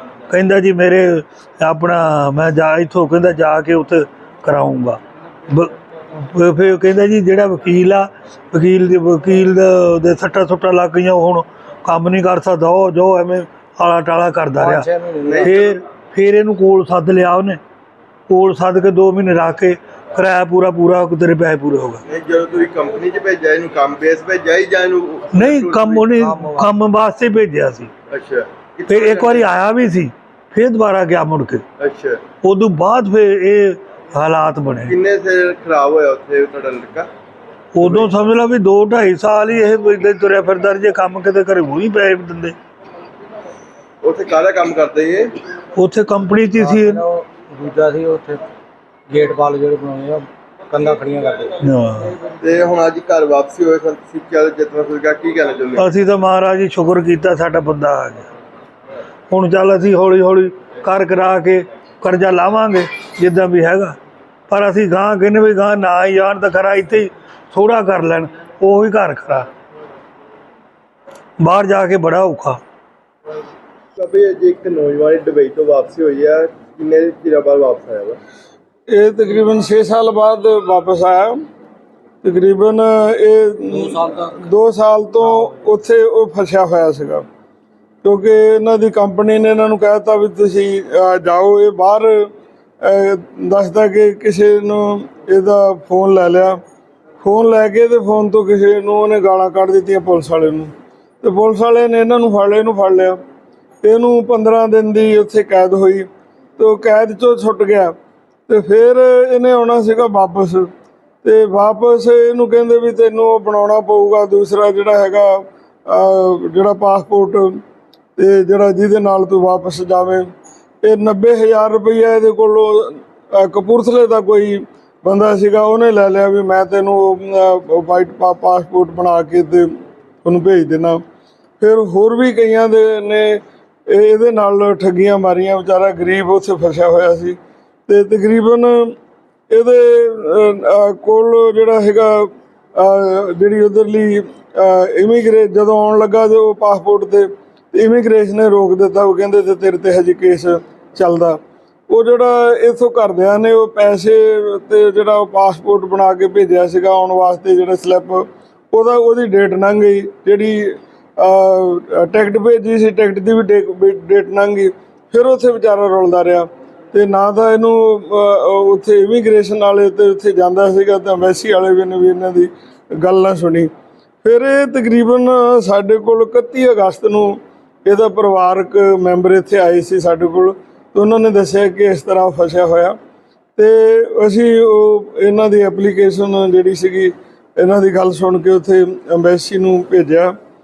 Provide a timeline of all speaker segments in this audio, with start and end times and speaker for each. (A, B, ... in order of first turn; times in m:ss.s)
0:00.3-0:05.0 A
0:06.3-0:14.9 A
0:14.6-0:15.5 B
0:15.2-0:15.7 C
0:15.4-0:17.6 A
0:18.3-0:22.0 A
0:22.1-0:26.1 C
0:25.3-0:27.9 A
0:26.2-0:26.7 B
0:28.1-0:29.5 C
0:28.9-0:31.6 A
0:31.8-0:32.2 C
0:32.4-0:34.9 A
0:34.9-0:37.1 C
0:37.7-0:42.6 A
0:44.0-0:45.4 C
0:45.8-0:47.0 A
0:46.6-0:48.4 B
0:49.1-0:51.6 B
0:51.6-0:52.2 A
0:52.4-0:55.9 C
0:55.8-0:58.2 A
0:59.3-1:04.0 A
1:04.5-1:09.5 A
1:11.4-1:12.6 A
1:14.0-1:18.2 C
1:18.9-1:21.4 D
1:22.2-1:27.2 D
1:23.7-1:24.5 B
1:28.0-1:32.3 D
1:32.8-1:36.6 D
1:37.2-1:43.2 D
1:43.8-1:47.9 D
1:48.5-1:50.7 D
1:51.2-1:57.6 D
1:58.2-2:00.3 D
2:00.8-2:09.7 D
2:10.2-2:11.0 D
2:11.6-2:17.4 D
2:17.9-2:18.9 D
2:19.5-2:53.7 D
2:54.2-3:03.0 D
3:03.6-3:10.3 D